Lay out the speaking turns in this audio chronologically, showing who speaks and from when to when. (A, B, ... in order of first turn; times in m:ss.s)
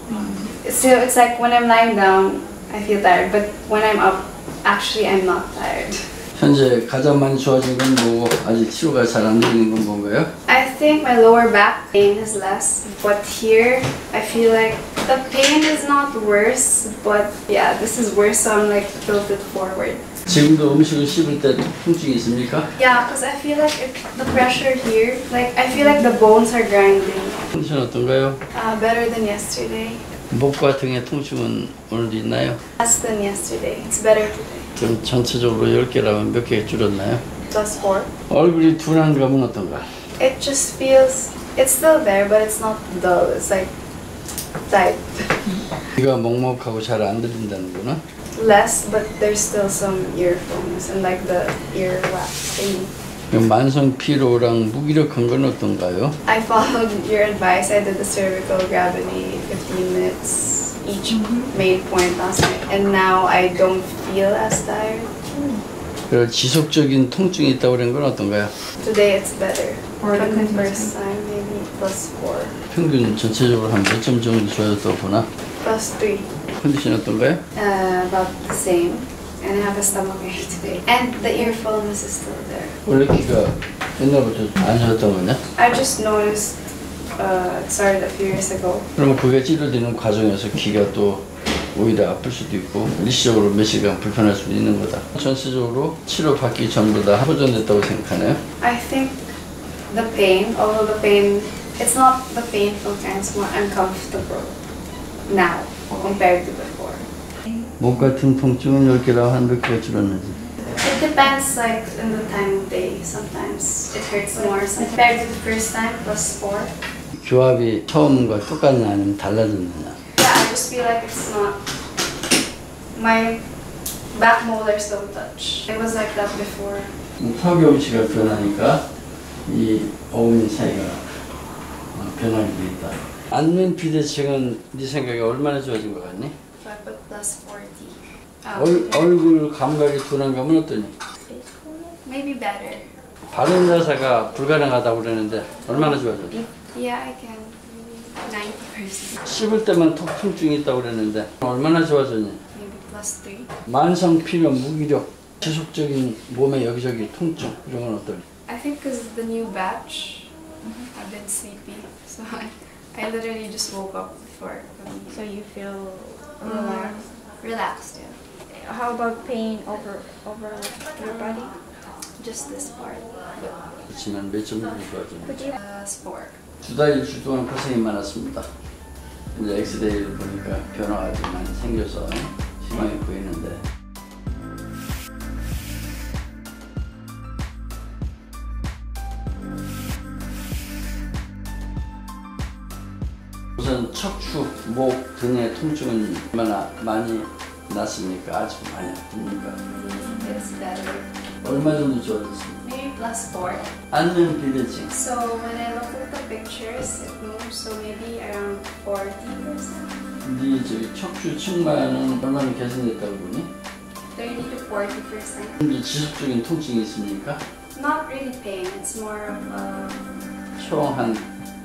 0:00.4-0:06.0 A
0:06.4-0:10.3 B
0:10.5-0:20.1 A
0:20.3-0:22.7 B
0:22.8-0:27.4 A
0:27.5-0:28.4 B
0:28.5-0:30.0 A
0:30.3-0:32.6 B
0:32.8-0:34.7 A
0:34.8-0:37.2 B
0:37.5-0:38.1 A
0:38.3-0:39.8 B
0:40.2-0:43.7 A
0:44.7-0:45.6 A
0:46.0-0:48.0 B
0:48.4-0:52.9 A
0:53.3-0:56.2 B
0:56.3-1:05.3 A
1:01.2-1:01.5 C
1:06.1-1:08.5 B
1:08.8-1:12.6 A
1:10.0-1:10.9 C
1:12.7-1:15.3 B
1:15.6-1:16.3 A
1:16.6-1:17.4 B
1:17.6-1:22.8 A
1:22.8-1:25.4 B
1:25.6-1:28.9 A
1:29.0-1:38.4 B
1:38.6-1:39.2 A
1:39.9-1:44.5 A
1:45.3-1:47.1 A
1:47.8-1:50.4 B
1:50.6-1:56.7 A
1:57.2-2:00.0 B
2:00.2-2:01.6 A
2:03.0-2:03.4 A
2:04.1-2:06.9 A
2:07.2-2:08.8 B
2:09.5-2:11.0 B
2:12.0-2:16.3 B
2:16.6-2:19.1 A
2:18.6-2:20.9 B
2:21.3-2:21.9 C
2:22.0-2:22.9 A
2:23.3-2:26.4 B
2:26.3-2:29.2 A
2:29.2-2:32.4 B
2:32.5-2:33.5 A
2:33.7-2:38.2 B
2:38.5-2:40.3 A
2:40.8-2:45.3 A
2:45.1-2:47.0 C
2:46.4-2:48.2 A
2:48.5-2:51.5 C
2:52.2-2:53.7 A
2:53.9-2:55.5 B
2:55.3-2:56.4 A
2:56.6-2:58.5 B
2:59.4-3:03.6 B
3:13.6-3:19.6 B
3:19.7-3:21.1 A
3:21.4-3:22.6 B
3:22.6-3:23.7 A
3:23.9-3:24.9 B
3:24.9-3:30.0 A
3:30.2-3:33.5 B
3:34.1-3:35.6 A
3:35.6-3:37.4 B
3:37.8-3:40.1 A
3:40.6-3:41.2 B